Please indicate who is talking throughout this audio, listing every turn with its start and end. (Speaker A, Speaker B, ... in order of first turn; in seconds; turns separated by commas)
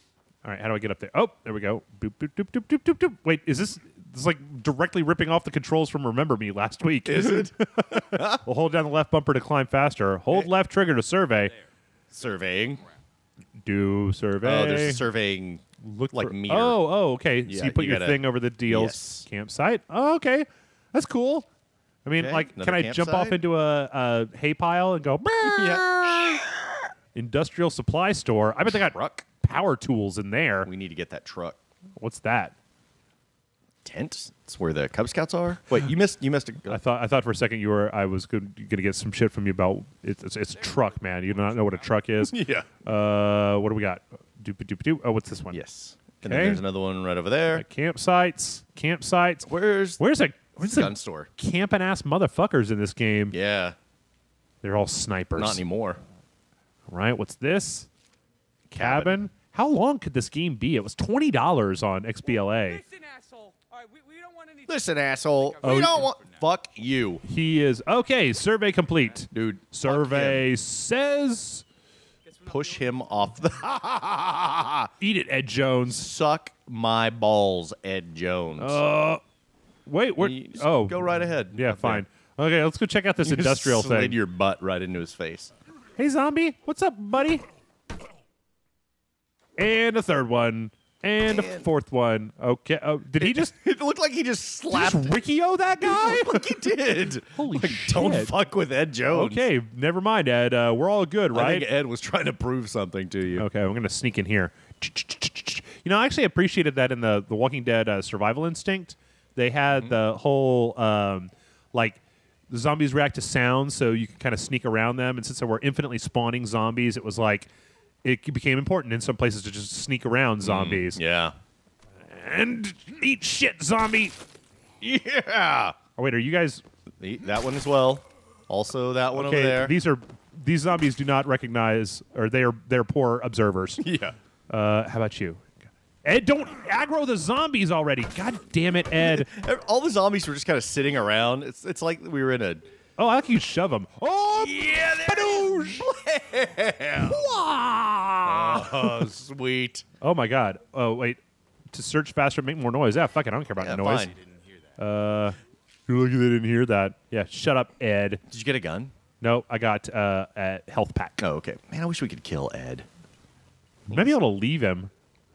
Speaker A: 0.4-11.5, Speaker B: 7.1-8.4, Speaker B: 12.1-12.8, Speaker A: 13.6-15.0, Speaker B: 14.4-16.8, Speaker A: 15.8-21.4, Speaker B: 17.4-19.2, Speaker A: 22.0-26.4, Speaker B: 22.2-23.4, Speaker B: 25.4-26.8, Speaker A: 27.1-30.7, Speaker B: 28.7-29.2, Speaker B: 30.6-31.6, Speaker A: 32.0-32.5, Speaker B: 33.8-36.8, Speaker A: 36.7-45.6, Speaker B: 42.2-42.7, Speaker B: 45.5-47.6, Speaker A: 46.2-46.6, Speaker A: 47.5-53.3, Speaker B: 49.4-51.3, Speaker B: 53.3-53.8, Speaker A: 54.6-55.6, Speaker B: 55.4-56.0, Speaker A: 56.9-57.9, Speaker A: 58.7-62.8, Speaker B: 58.7-59.2, Speaker C: 62.6-66.2, Speaker B: 64.7-67.2, Speaker A: 65.6-66.1, Speaker A: 67.2-71.6, Speaker B: 69.3-70.5, Speaker C: 72.2-73.4, Speaker B: 72.5-74.9, Speaker A: 75.0-76.1, Speaker B: 75.9-78.8, Speaker A: 78.6-79.2, Speaker A: 79.8-84.2, Speaker B: 80.2-82.0, Speaker B: 83.2-85.5, Speaker A: 86.0-87.4, Speaker A: 89.6-93.5, Speaker B: 91.2-91.7, Speaker B: 93.2-95.2, Speaker A: 94.7-96.6, Speaker B: 95.8-99.4, Speaker A: 97.3-98.3, Speaker A: 99.1-101.7, Speaker B: 101.3-103.5, Speaker A: 103.4-112.0, Speaker A: 112.5-117.5, Speaker A: 118.0-121.0, Speaker B: 120.4-121.3, Speaker A: 122.1-124.2, Speaker B: 124.8-125.8, Speaker A: 126.0-126.6, Speaker B: 127.0-129.7, Speaker A: 129.1-133.8, Speaker B: 133.8-134.2, Speaker A: 134.5-139.3, Speaker B: 139.0-142.7, Speaker A: 143.0-145.9, Speaker B: 144.3-147.2, Speaker A: 147.0-149.1, Speaker B: 148.2-149.8, Speaker A: 150.0-151.2, Speaker A: 151.7-154.1, Speaker B: 153.6-154.1, Speaker A: 154.8-155.4, Speaker A: 155.9-158.2, Speaker B: 158.3-158.9, Speaker A: 159.2-161.2, Speaker B: 161.2-162.9, Speaker A: 163.9-164.9